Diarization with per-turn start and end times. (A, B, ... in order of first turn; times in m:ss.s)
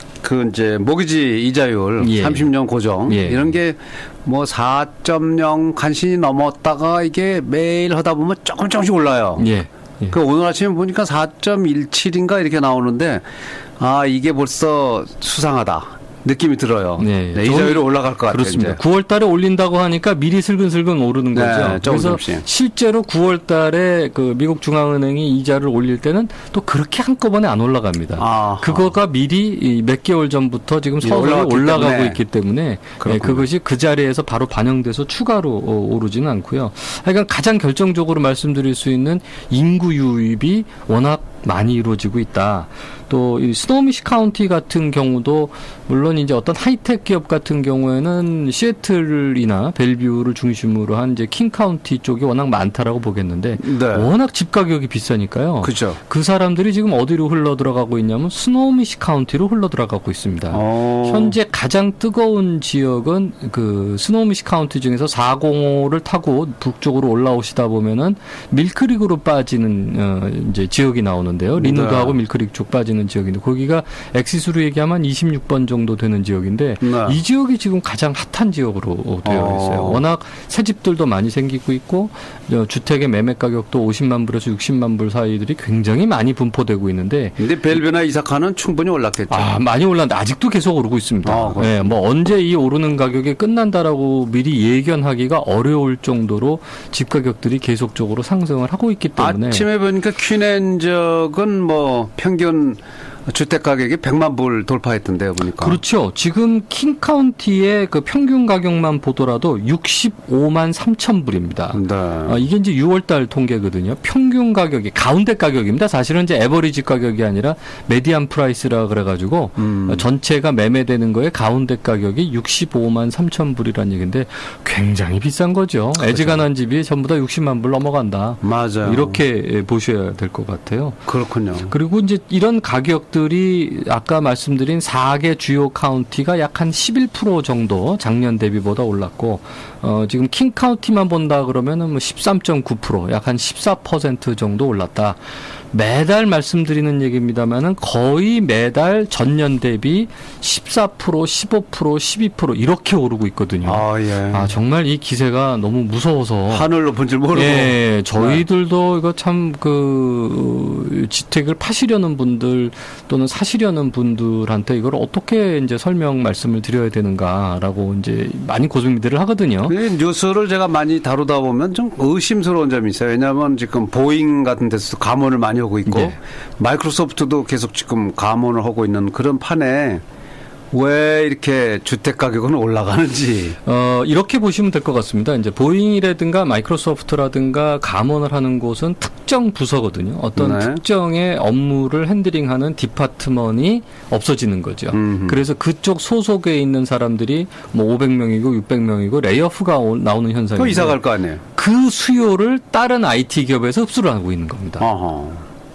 0:00.2-0:09.5 A
0:02.0-0:02.5 B
0:03.1-0:03.6 B
0:09.4-0:10.2 B
0:10.1-0:13.3 A
0:13.8-0:18.8 A
0:17.0-1:27.4 B
0:21.3-0:22.4 A
0:28.2-0:28.9 A
0:31.0-0:32.2 A
0:33.0-0:33.5 A
0:53.6-0:54.1 A
0:55.6-0:56.0 A
1:00.5-1:01.4 A
1:11.6-1:12.2 A
1:16.8-1:17.2 A
1:19.2-1:20.0 A
1:27.4-1:29.5 A
1:29.3-1:39.7 B
1:31.2-1:31.9 A
1:39.2-1:45.8 A
1:45.6-2:11.0 B
1:51.7-1:52.4 A
1:59.6-2:00.0 A
2:06.0-2:06.4 A
2:08.4-2:09.2 A
2:11.1-2:11.7 A
2:11.6-2:25.2 B
2:25.7-2:36.7 B
2:33.6-2:34.5 A
2:36.5-2:38.4 A
2:37.3-2:49.8 B
2:49.7-3:00.0 A
2:55.9-2:56.2 B
3:00.7-3:03.6 A
3:03.6-3:21.0 B
3:10.4-3:10.8 A
3:14.9-3:15.4 A
3:20.6-3:21.4 A
3:21.6-3:24.9 B
3:24.8-3:25.5 A